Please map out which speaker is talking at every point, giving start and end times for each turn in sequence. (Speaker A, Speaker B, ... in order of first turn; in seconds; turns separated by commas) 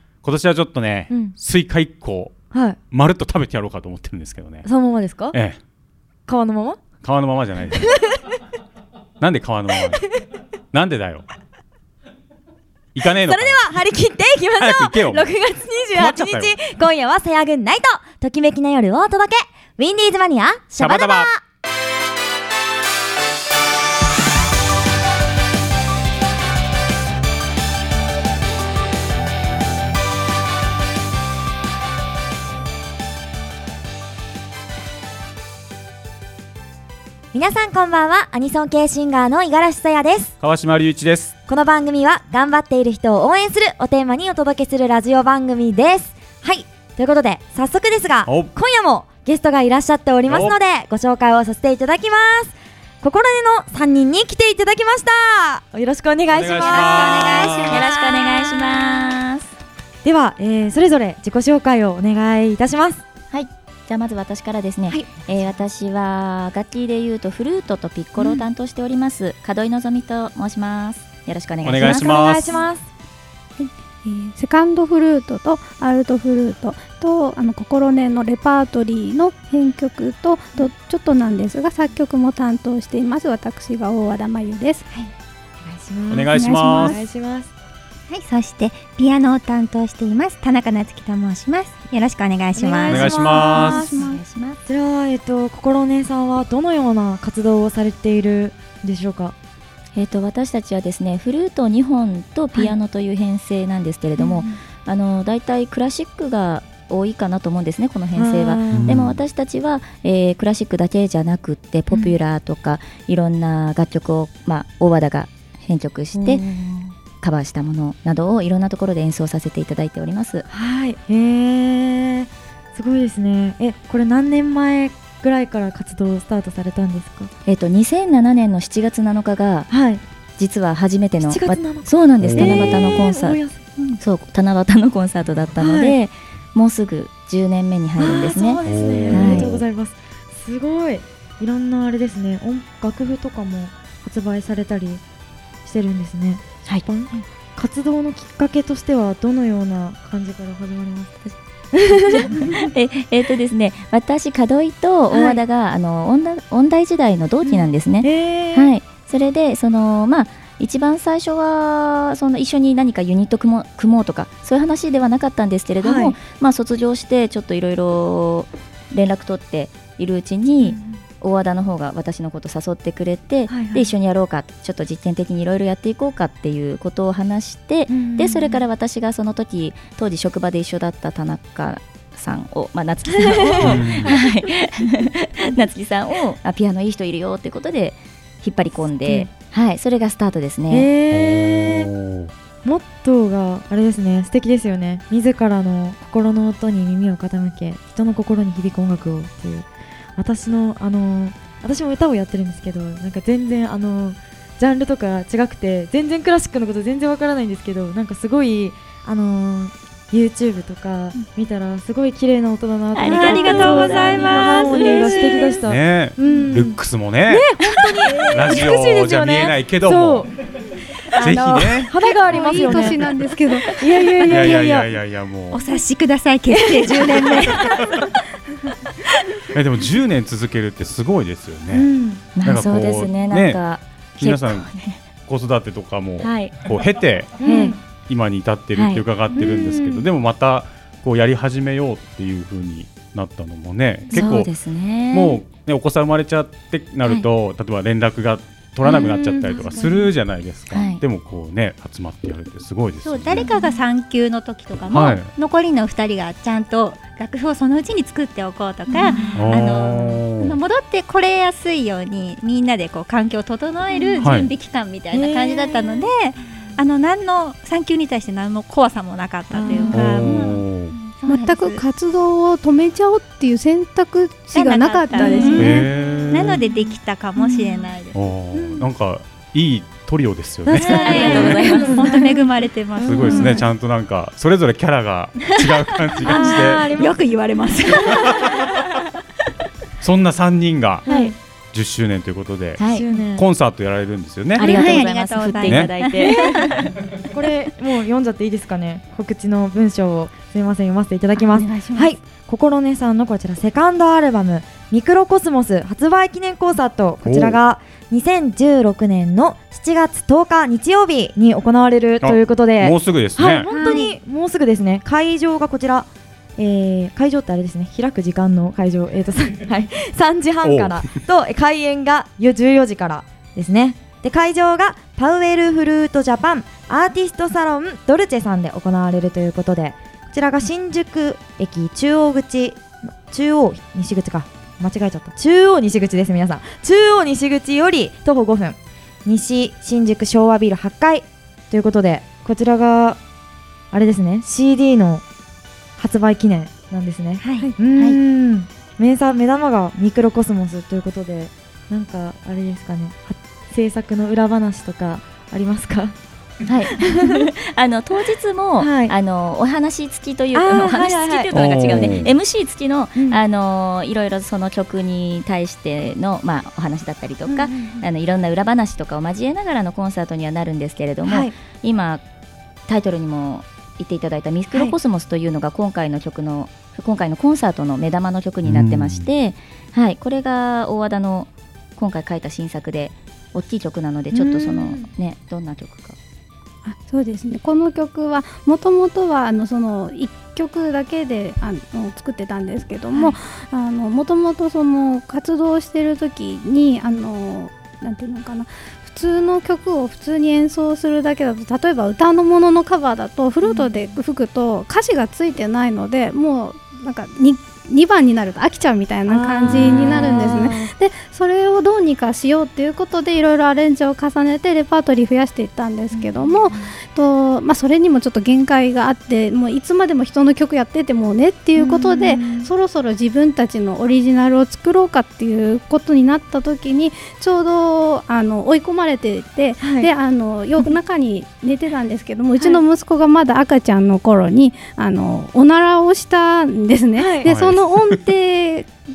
Speaker A: 0.2-2.3, Speaker B: 1.1-1.3, Speaker B: 2.5-2.8, Speaker A: 2.9-4.7, Speaker B: 4.6-5.3, Speaker A: 5.3-5.6, Speaker B: 6.3-6.8, Speaker A: 7.0-8.0, Speaker B: 7.8-8.2, Speaker A: 9.2-10.1, Speaker A: 10.7-11.2, Speaker A: 12.9-13.6, Speaker B: 13.0-21.4, Speaker A: 14.6-15.3, Speaker A: 15.9-16.5, Speaker A: 20.8-21.3, Speaker B: 37.3-40.3, Speaker A: 40.4-41.3, Speaker B: 41.5-57.6, Speaker A: 48.2-48.5, Speaker A: 50.3-50.5, Speaker A: 56.3-57.9, Speaker C: 56.6-57.8, Speaker D: 57.6-59.5, Speaker B: 60.0-63.0, Speaker D: 63.3-72.4, Speaker B: 68.2-68.4, Speaker A: 71.6-72.6, Speaker B: 71.8-72.9, Speaker E: 73.6-84.9, Speaker B: 85.6-87.5, Speaker A: 86.1-87.0, Speaker C: 86.3-87.0, Speaker C: 88.1-93.1, Speaker B: 92.5-94.0, Speaker A: 92.8-93.9, Speaker E: 93.4-94.2, Speaker D: 93.8-94.6, Speaker B: 94.6-99.3, Speaker D: 99.9-116.5, Speaker B: 104.2-104.5, Speaker B: 108.1-109.0, Speaker A: 108.7-109.2, Speaker B: 111.9-112.2, Speaker B: 116.1-116.8, Speaker D: 117.2-120.5, Speaker B: 120.5-127.3, Speaker D: 127.5-129.7, Speaker B: 129.7-130.0, Speaker D: 130.4-139.6, Speaker B: 131.2-133.7, Speaker A: 132.2-132.8, Speaker B: 135.6-135.9, Speaker B: 138.0-145.0, Speaker A: 138.7-139.6, Speaker B: 145.6-152.7, Speaker D: 152.1-190.9, Speaker B: 155.1-155.4, Speaker B: 157.4-158.7, Speaker B: 165.8-166.2, Speaker B: 170.6-171.0, Speaker B: 173.5-173.9, Speaker B: 177.9-178.6, Speaker B: 183.1-184.3, Speaker A: 183.6-184.2, Speaker B: 189.0-189.3, Speaker B: 190.7-191.9, Speaker A: 191.1-192.3, Speaker B: 192.6-220.3, Speaker D: 212.9-215.6, Speaker C: 213.0-215.5, Speaker A: 215.6-217.4, Speaker A: 218.3-220.3, Speaker A: 221.2-221.9, Speaker E: 221.2-223.7, Speaker B: 221.9-223.0, Speaker C: 222.5-222.8, Speaker B: 223.8-224.9, Speaker A: 224.3-225.6, Speaker C: 225.5-227.8, Speaker B: 226.5-227.3, Speaker A: 229.5-231.9, Speaker B: 231.7-232.2, Speaker D: 232.3-235.0, Speaker A: 232.4-233.6, Speaker A: 234.2-234.7, Speaker A: 235.2-237.3, Speaker D: 236.2-236.6, Speaker D: 237.4-237.8, Speaker B: 237.4-237.8, Speaker A: 238.1-244.5, Speaker D: 238.7-239.0, Speaker B: 239.3-240.1, Speaker D: 244.1-245.4, Speaker A: 245.1-253.5, Speaker B: 248.8-250.1, Speaker D: 250.7-251.0, Speaker C: 253.0-271.8, Speaker A: 254.9-255.3, Speaker B: 258.9-259.3, Speaker A: 259.3-260.6, Speaker A: 264.2-264.5, Speaker B: 265.1-266.1, Speaker B: 269.5-270.4, Speaker A: 269.9-270.9, Speaker E: 271.2-275.9, Speaker C: 274.5-278.2, Speaker B: 275.1-275.7, Speaker A: 275.6-276.6, Speaker B: 277.4-277.9, Speaker A: 278.1-281.6, Speaker B: 280.6-282.5, Speaker D: 280.9-282.2, Speaker C: 280.9-283.6, Speaker A: 283.0-286.9, Speaker B: 283.2-283.6, Speaker C: 286.2-288.5, Speaker B: 286.2-287.2, Speaker A: 288.2-288.5, Speaker A: 290.0-292.8, Speaker B: 291.1-291.4, Speaker D: 292.8-293.1, Speaker B: 292.8-293.4, Speaker A: 293.3-295.0, Speaker D: 294.6-296.8, Speaker C: 294.6-296.7, Speaker A: 295.6-295.9, Speaker B: 296.2-343.2, Speaker C: 301.4-302.0, Speaker E: 301.7-302.0, Speaker A: 307.2-307.6, Speaker A: 312.2-313.7, Speaker E: 313.6-314.1, Speaker A: 320.6-321.1, Speaker B: 343.9-345.2, Speaker B: 346.0-356.2, Speaker C: 347.4-347.7, Speaker D: 356.6-372.2, Speaker B: 357.0-357.5, Speaker B: 358.8-359.1, Speaker B: 360.5-362.1, Speaker A: 361.5-362.3, Speaker B: 363.1-363.4, Speaker B: 367.4-368.0, Speaker B: 371.2-371.5, Speaker D: 372.9-386.2, Speaker B: 374.7-375.0, Speaker A: 378.6-379.3, Speaker B: 384.3-385.1, Speaker E: 386.8-438.9, Speaker B: 403.6-404.1, Speaker B: 409.3-410.9, Speaker A: 409.9-410.1, Speaker B: 416.1-416.5, Speaker B: 421.8-422.7, Speaker B: 429.8-430.1, Speaker B: 437.1-437.5, Speaker A: 437.4-437.8